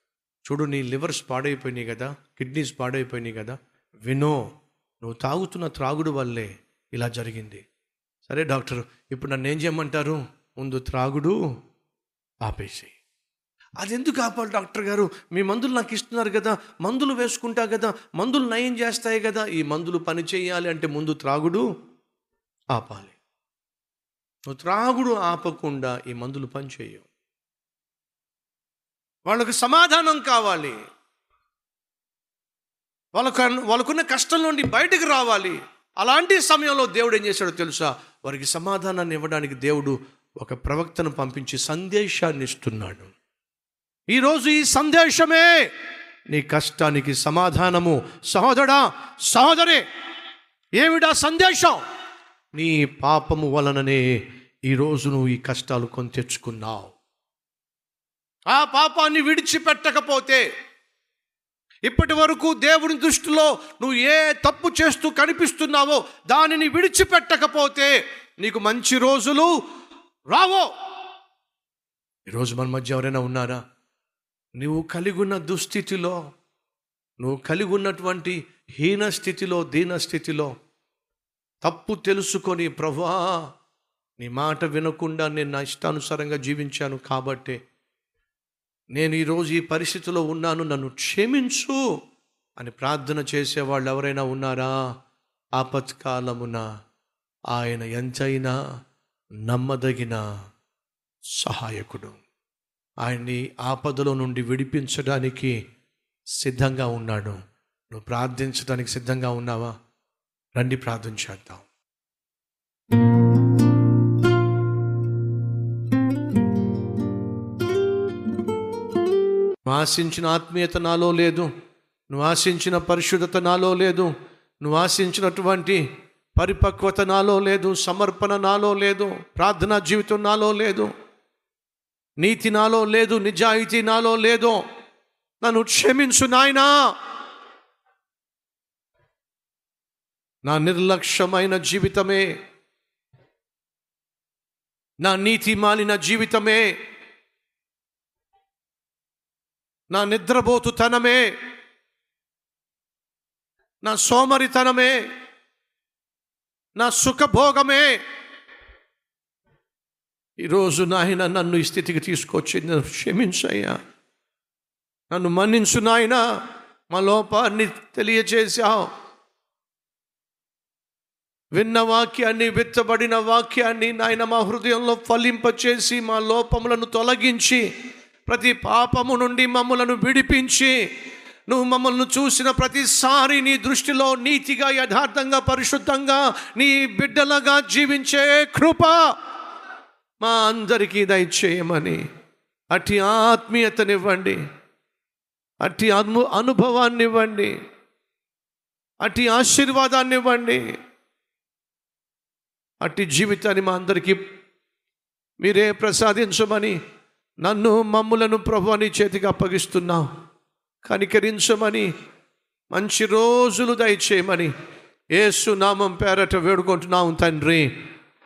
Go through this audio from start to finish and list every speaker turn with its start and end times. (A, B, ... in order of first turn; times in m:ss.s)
0:00.4-0:04.4 A
0:05.0-0:07.6 A
0:08.3-0:11.4 A
0:12.4-0:12.9 A
0:13.8-0:21.6 A
0:22.7-0:23.2 A
0:24.5-0:27.1 A
0:29.3-0:30.8 A
0:33.2-0:43.1 A
0:44.1-0:45.6 A
0:46.3-0:49.8 A
0:50.8-0:51.8 A
0:52.5-0:54.2 A
0:54.7-0:56.9 A
0:58.5-1:00.5 A
1:01.9-1:09.5 A
1:10.3-1:10.7 A
1:12.3-1:13.6 A
1:14.6-1:16.2 A
1:17.2-1:20.5 A
1:21.6-1:23.4 A
1:24.2-1:27.6 A
1:28.9-1:31.8 A
1:32.6-1:34.7 A
1:35.6-1:36.6 A
1:37.5-1:38.6 A
1:39.5-1:40.2 A
1:41.4-1:42.2 A
1:43.0-1:45.6 A
1:46.4-1:47.4 A
1:47.9-1:49.7 A
1:50.6-1:51.7 A
1:59.7-2:01.5 A
2:02.1-2:05.8 A
2:06.4-2:10.9 A
2:12.2-2:14.6 A
2:15.4-2:16.7 A
2:20.4-2:22.3 A
2:25.0-2:26.7 A
2:29.9-2:31.3 A
2:33.8-2:35.0 A
2:36.8-2:38.0 A
2:40.4-2:43.8 A
2:45.1-2:46.2 A
2:46.9-2:48.9 A
2:51.6-2:57.6 A
2:58.3-3:00.8 A
3:01.5-3:09.0 A
3:10.2-3:12.0 A
3:12.7-3:14.4 A
3:15.6-3:17.5 A
3:19.0-3:20.6 A
3:22.8-3:24.2 A
3:25.4-3:26.8 A
3:27.4-3:30.1 A
3:30.8-3:31.9 A
3:32.7-3:34.5 A
3:35.1-3:37.7 A